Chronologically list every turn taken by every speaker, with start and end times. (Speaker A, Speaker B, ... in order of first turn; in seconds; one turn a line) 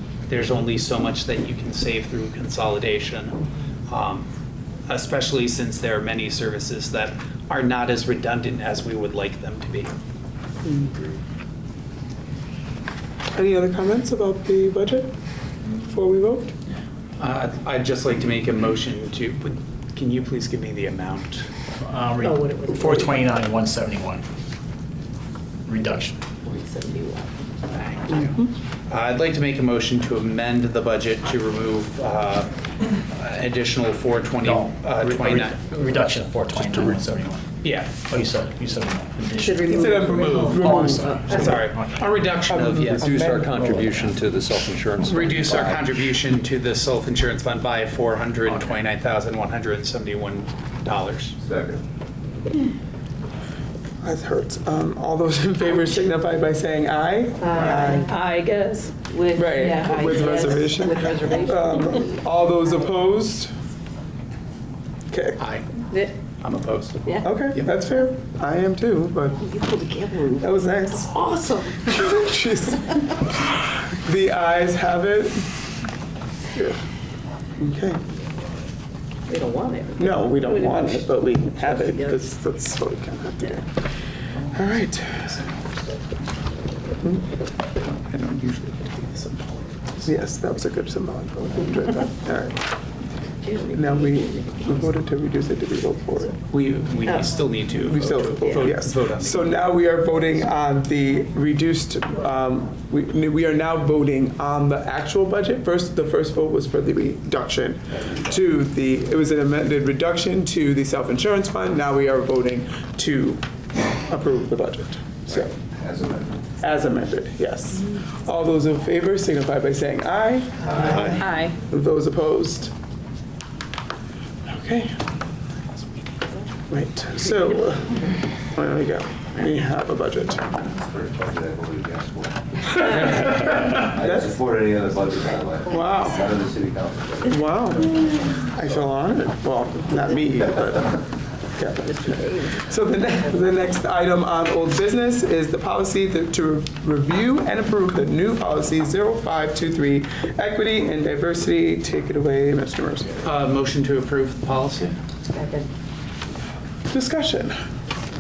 Speaker A: 0.3-4.3
Speaker A: 4.9-9.9
Speaker B: 10.6-10.9
Speaker B: 13.3-15.1
Speaker B: 15.7-16.5
Speaker A: 17.2-21.5
Speaker C: 21.8-24.2
Speaker D: 22.2-23.4
Speaker C: 25.7-26.2
Speaker D: 26.4-27.4
Speaker A: 27.7-36.0
Speaker C: 34.4-37.5
Speaker A: 37.6-38.0
Speaker C: 38.0-42.2
Speaker D: 39.4-41.6
Speaker B: 39.7-41.6
Speaker A: 40.6-43.0
Speaker B: 42.5-44.0
Speaker E: 42.6-45.9
Speaker A: 45.0-51.4
Speaker F: 51.4-51.8
Speaker B: 54.0-58.1
Speaker D: 57.4-62.1
Speaker B: 59.4-63.5
Speaker B: 65.1-65.4
Speaker A: 65.4-65.7
Speaker D: 65.9-66.2
Speaker A: 66.4-67.7
Speaker B: 67.2-69.5
Speaker D: 69.4-72.0
Speaker B: 70.4-71.1
Speaker B: 71.8-75.5
Speaker B: 77.6-78.0
Speaker D: 79.3-82.3
Speaker B: 80.0-83.7
Speaker B: 84.5-85.5
Speaker A: 87.8-90.2
Speaker B: 90.0-92.6
Speaker D: 93.4-94.7
Speaker B: 93.7-96.4
Speaker A: 96.5-99.5
Speaker D: 97.0-97.3
Speaker B: 97.8-113.4
Speaker B: 113.9-115.5
Speaker F: 115.8-116.3
Speaker B: 116.6-122.7
Speaker F: 120.7-121.0
Speaker A: 120.9-121.2
Speaker D: 121.0-121.5
Speaker B: 124.5-125.0
Speaker B: 126.7-128.0
Speaker B: 128.5-130.7
Speaker F: 130.8-132.4
Speaker D: 132.7-133.5
Speaker B: 132.9-134.4
Speaker F: 133.7-137.2
Speaker D: 135.3-136.0
Speaker B: 135.7-136.3
Speaker B: 137.2-141.0
Speaker D: 139.9-140.2
Speaker B: 141.6-153.1
Speaker D: 141.8-142.7
Speaker A: 153.2-155.0
Speaker D: 155.2-155.7
Speaker B: 156.9-157.6